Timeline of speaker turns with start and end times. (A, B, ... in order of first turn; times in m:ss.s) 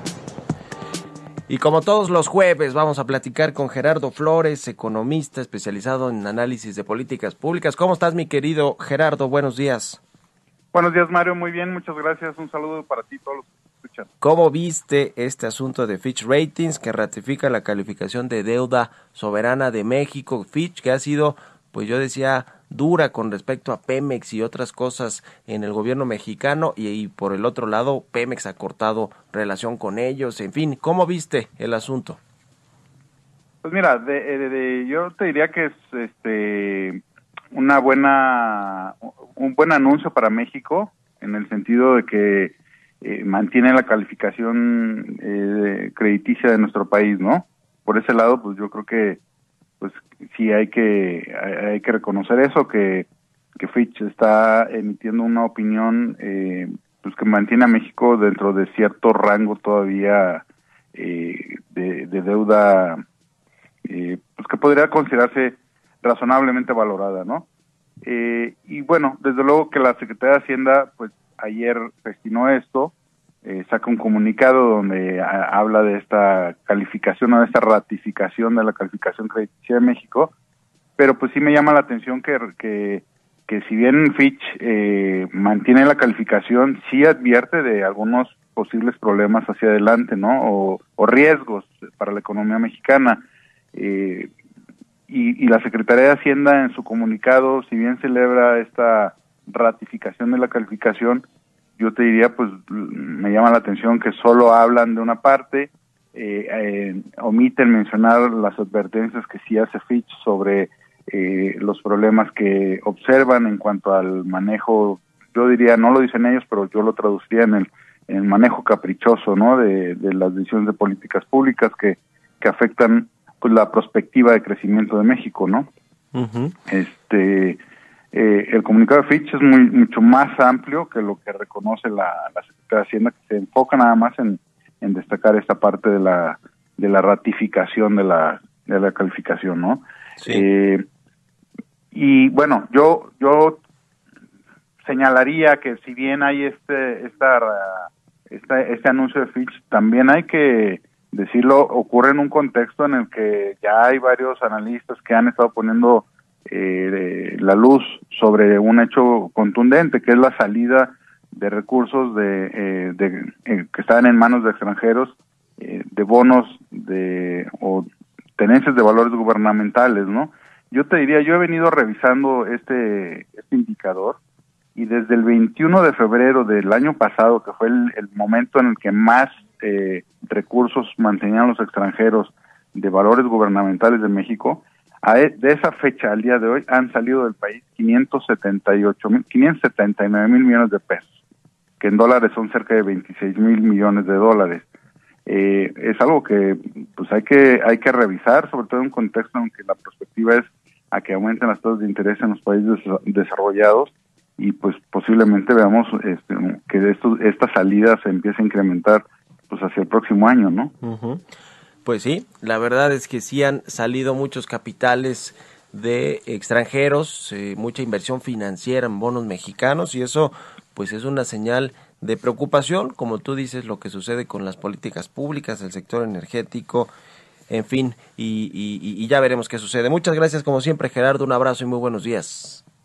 0:01.5-0:10.0 A
0:10.7-0:14.1 B
0:14.2-0:32.2 A
0:33.6-0:37.0 B
0:37.5-0:49.2 B
0:49.8-1:03.0 B
1:03.8-1:07.5 B
1:08.0-1:12.9 B
1:13.4-1:20.3 B
1:21.0-1:34.3 B
1:35.1-1:41.2 B
1:41.8-2:05.7 B
2:06.2-2:06.5 A
2:06.7-2:07.6 B
2:08.1-2:20.8 B
2:20.2-2:20.5 A
2:21.9-2:23.6 B
2:24.8-2:54.2 B
2:54.8-3:11.2 B
3:11.8-3:14.7 B
3:15.2-3:30.7 B
3:30.8-3:31.2 A
3:31.8-3:46.9 A
3:47.5-3:52.6 A